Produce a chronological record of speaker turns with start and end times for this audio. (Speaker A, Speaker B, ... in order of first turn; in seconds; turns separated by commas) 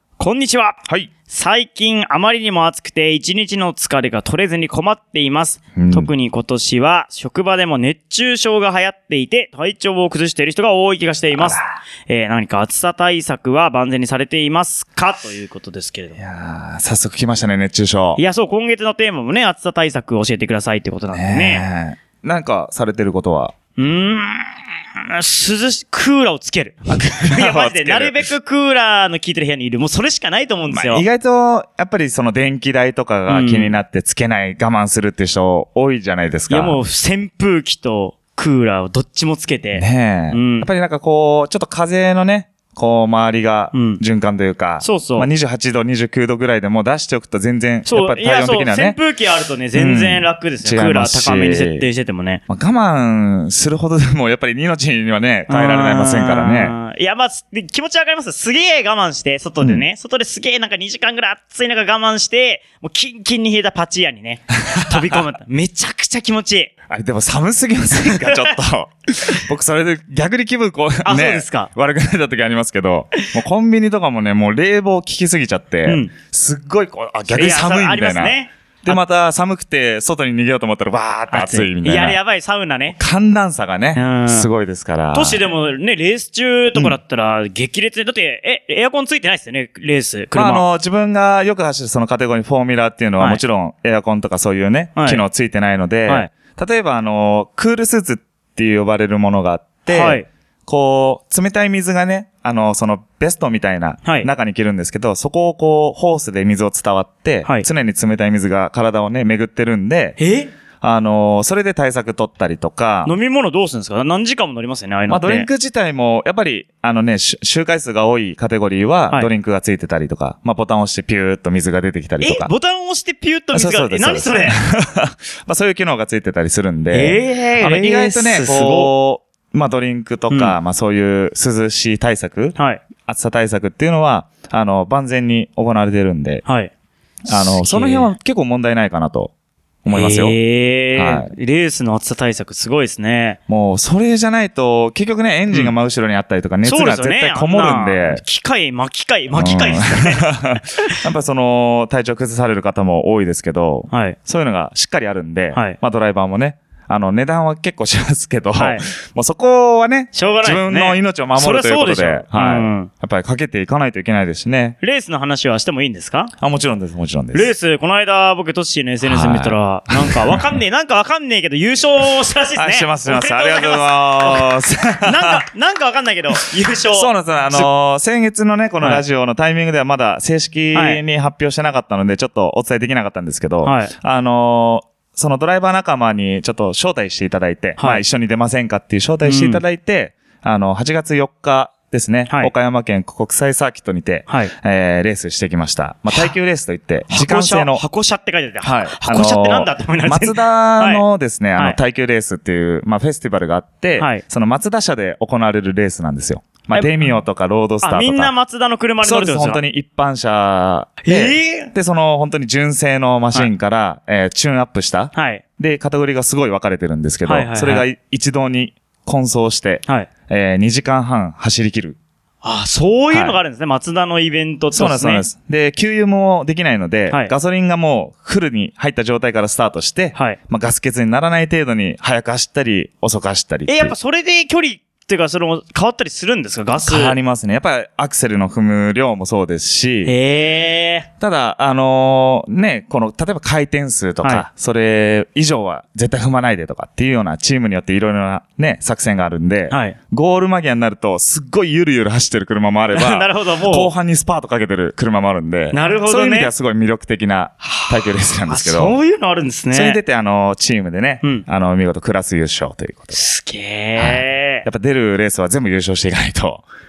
Speaker A: 0.2-16.2, Speaker B: 5.7-6.1, Speaker B: 11.3-11.6, Speaker B: 16.2-18.2, Speaker A: 18.2-21.6, Speaker B: 21.1-23.5, Speaker A: 23.8-31.0, Speaker B: 26.9-28.2, Speaker B: 30.7-36.8, Speaker A: 33.3-33.8, Speaker A: 36.5-40.7, Speaker B: 39.7-49.0, Speaker A: 43.7-44.0, Speaker A: 44.8-45.3, Speaker A: 47.9-52.4, Speaker B: 49.7-51.9, Speaker B: 52.5-56.7, Speaker A: 55.5-66.7, Speaker B: 64.7-65.2, Speaker B: 66.9-82.2, Speaker A: 68.1-68.5, Speaker A: 71.0-71.7, Speaker A: 75.8-76.1, Speaker A: 77.3-79.0, Speaker A: 81.3-83.0, Speaker B: 83.0-85.4, Speaker A: 83.9-84.5, Speaker A: 85.1-90.6, Speaker B: 90.3-110.2, Speaker A: 95.0-95.2, Speaker A: 99.9-100.3, Speaker A: 104.0-104.3, Speaker A: 110.2-110.5, Speaker B: 110.8-113.1, Speaker A: 113.0-115.5, Speaker B: 115.1-122.5, Speaker A: 122.2-124.6, Speaker B: 123.5-136.4, Speaker A: 126.9-128.9, Speaker A: 130.3-130.6, Speaker A: 132.6-132.8, Speaker A: 136.4-136.7, Speaker B: 137.3-139.3, Speaker A: 137.3-138.1, Speaker B: 139.8-140.3, Speaker A: 139.9-143.4, Speaker B: 140.9-141.3, Speaker B: 143.5-148.2, Speaker A: 146.6-151.0, Speaker B: 149.3-164.8, Speaker A: 153.9-154.2, Speaker A: 155.5-155.8, Speaker A: 158.5-158.9, Speaker A: 160.1-162.9, Speaker A: 164.8-166.3, Speaker B: 166.4-167.5, Speaker A: 167.3-177.7, Speaker B: 169.0-170.4, Speaker B: 172.6-175.4, Speaker B: 176.9-197.8, Speaker A: 180.7-181.0, Speaker A: 183.6-183.9, Speaker A: 187.8-188.0, Speaker A: 189.2-189.6, Speaker A: 197.1-201.0, Speaker B: 198.6-208.3, Speaker A: 204.0-204.2, Speaker A: 206.7-207.1, Speaker A: 207.8-209.6, Speaker B: 209.0-222.0, Speaker A: 211.0-211.7, Speaker A: 215.1-215.4, Speaker A: 217.2-217.8, Speaker A: 222.4-225.2, Speaker B: 223.1-223.4, Speaker B: 224.7-233.9, Speaker A: 233.7-237.2, Speaker B: 236.8-240.1, Speaker A: 240.0-241.1, Speaker B: 241.2-258.9, Speaker A: 249.7-250.0, Speaker A: 252.9-253.9, Speaker A: 255.7-256.5, Speaker A: 257.6-260.0, Speaker B: 259.7-263.3, Speaker A: 263.1-264.6, Speaker B: 264.0-266.6